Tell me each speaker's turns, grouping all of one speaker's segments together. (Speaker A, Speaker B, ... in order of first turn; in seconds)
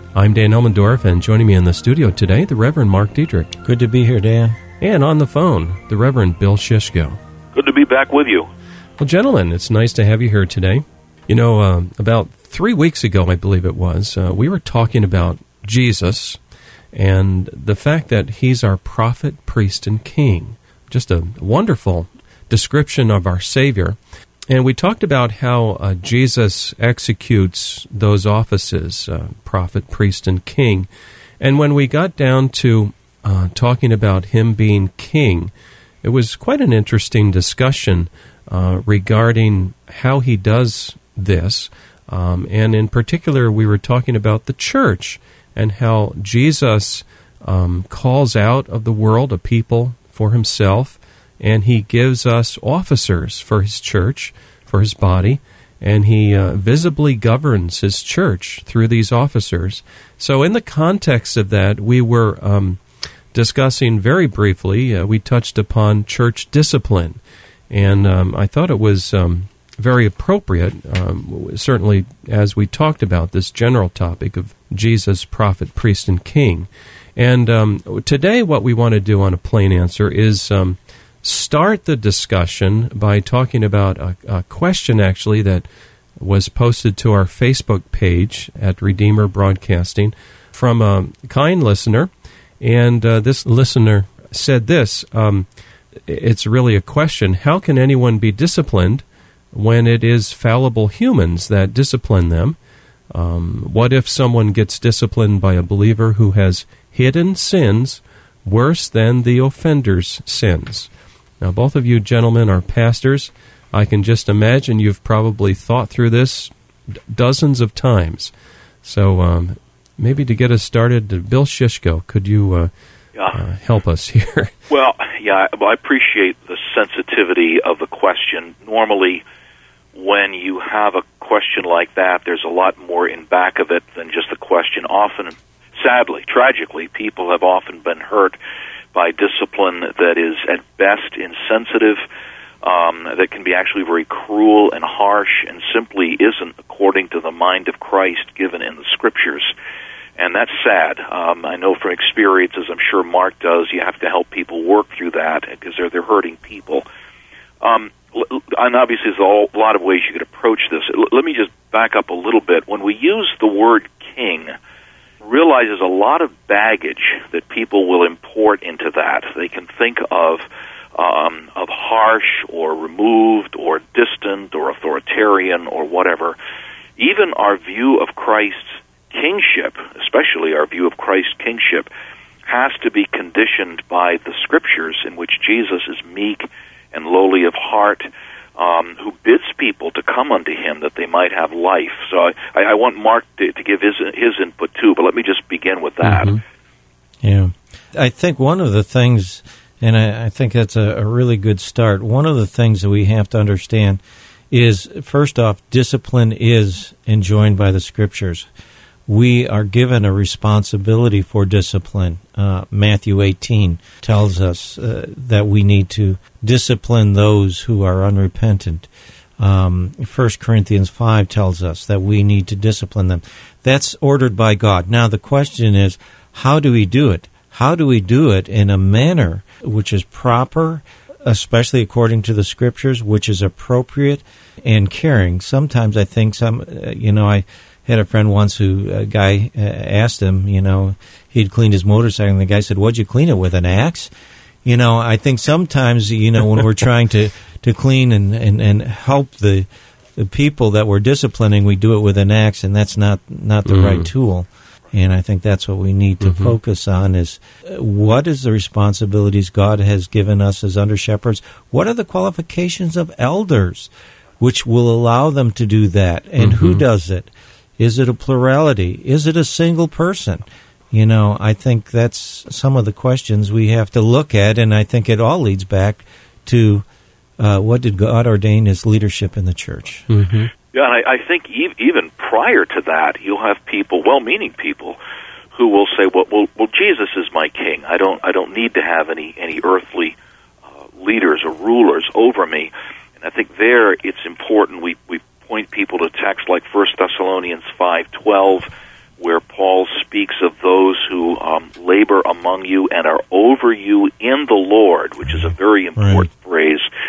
Speaker A: 0.1-3.6, 4.8-7.2, 9.0-16.4, 16.9-24.0, 24.5-30.9, 31.4-35.5, 36.0-62.8, 63.3-67.2, 67.7-85.7, 86.2-92.1, 92.6-95.5, 96.0-102.6, 103.1-110.9, 111.4-118.3, 118.8-122.7, 123.3-124.5, 196.0-196.4, 253.7-254.1, 256.2-256.5, 266.4-266.8, 280.1-280.5
Speaker B: 3.6-4.6, 197.2-208.5, 209.1-244.1, 244.6-276.9, 277.4-280.1, 306.0-306.3
Speaker C: 7.5-8.5, 124.7-129.2, 129.9-138.4, 138.9-142.0, 142.6-149.5, 150.2-156.8, 157.6-164.5, 165.2-176.4, 177.0-181.9, 182.4-196.4, 280.7-285.0, 285.5-290.1, 291.0-306.9